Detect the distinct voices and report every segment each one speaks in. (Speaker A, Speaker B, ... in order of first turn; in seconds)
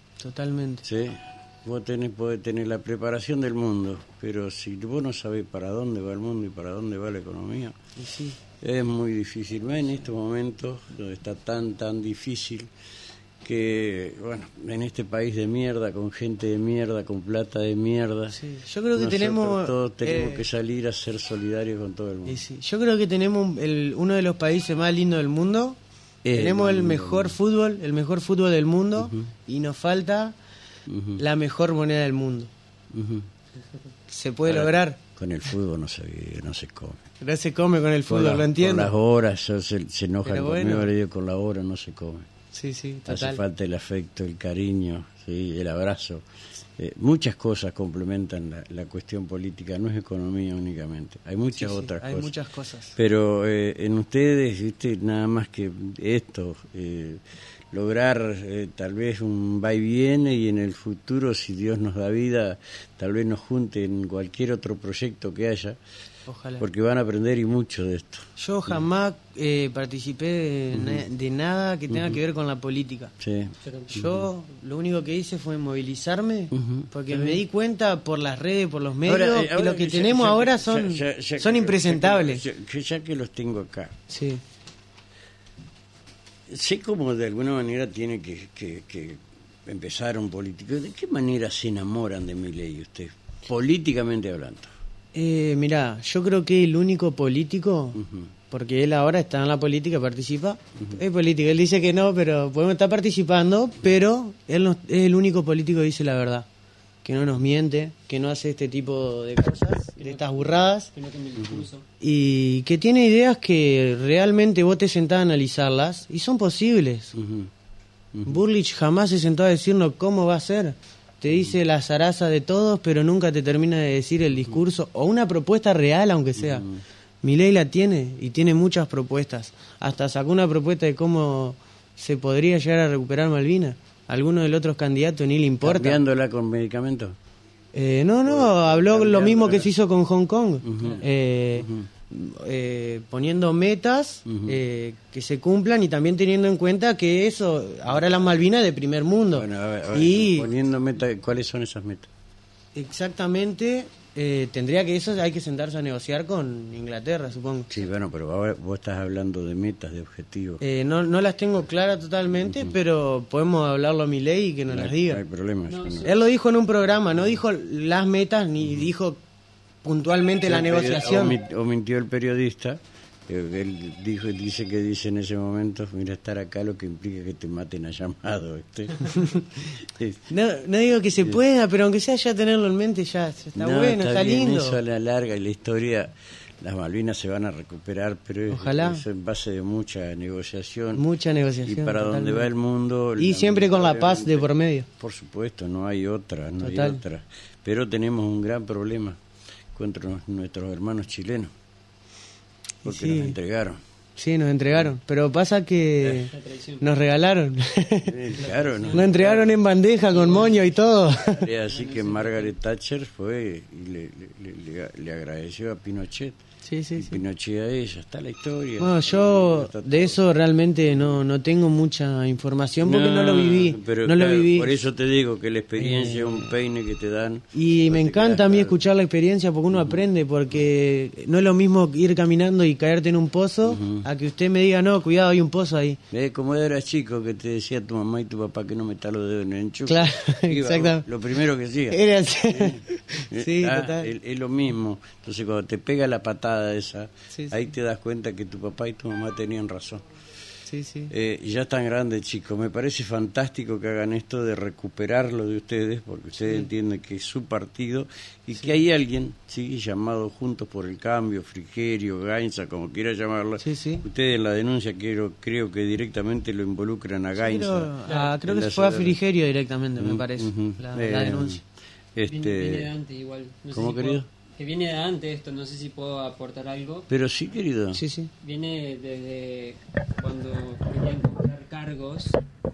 Speaker A: 0.2-0.8, 8.0-8.4, 18.3-20.4, 22.3-25.8, 26.3-30.4, 31.2-32.5, 34.1-35.0, 37.2-38.9, 40.2-40.9, 42.5-43.4, 51.6-53.0, 66.3-66.6, 68.4-73.1, 73.9-82.4, 84.1-84.4, 95.1-106.5, 107.0-110.9, 112.0-117.1, 118.3-126.7, 127.2-136.0, 137.7-150.5, 152.8-157.7, 160.6-165.2, 166.0-169.2, 169.8-171.4, 180.3-184.8, 188.5-189.0, 190.9-192.5, 193.2-194.9, 196.6-197.0, 202.8-203.4, 204.2-208.3, 208.9-211.5, 216.6-217.2, 218.8-224.7, 225.8-226.6, 227.5-236.0, 239.9-241.1, 241.9-244.1, 247.3-247.7, 250.7-251.1, 256.4-256.7, 263.6-264.1, 267.4-271.6, 277.9-278.3
Speaker B: 0.8-7.8, 8.6-12.7, 13.4-18.4, 18.9-22.4, 26.2-27.4, 29.0-29.3, 30.9-31.2, 32.9-33.3, 34.5-37.0, 38.1-42.3, 43.1-46.2, 46.8-52.3, 53.0-57.2, 57.7-65.8, 66.6-68.8, 70.7-71.0, 71.9-72.2, 73.2-74.3, 76.5-77.4, 79.0-84.0, 86.5-94.7, 98.0-98.3, 117.2-117.5, 118.1-118.4, 126.4-126.8, 135.6-137.2, 138.2-139.7, 140.6-141.0, 141.6-141.9, 144.3-144.6, 149.3-152.1, 157.7-160.6, 162.4-162.8, 164.7-166.1, 170.4-180.3, 183.6-191.0, 191.6-199.2, 199.7-201.5, 202.8-203.8, 208.0-209.5, 211.3-216.4, 217.0-220.2, 222.8-228.8, 233.7-234.1, 236.1-250.1, 251.1-269.2, 270.0-271.6, 272.2-272.9, 273.7-274.3, 277.1-278.0
Speaker C: 73.6-73.9, 110.0-111.8, 165.7-166.2, 206.1-206.9, 208.4-209.1, 210.1-210.6, 211.7-212.5, 268.1-268.4, 272.3-277.1, 278.4-282.4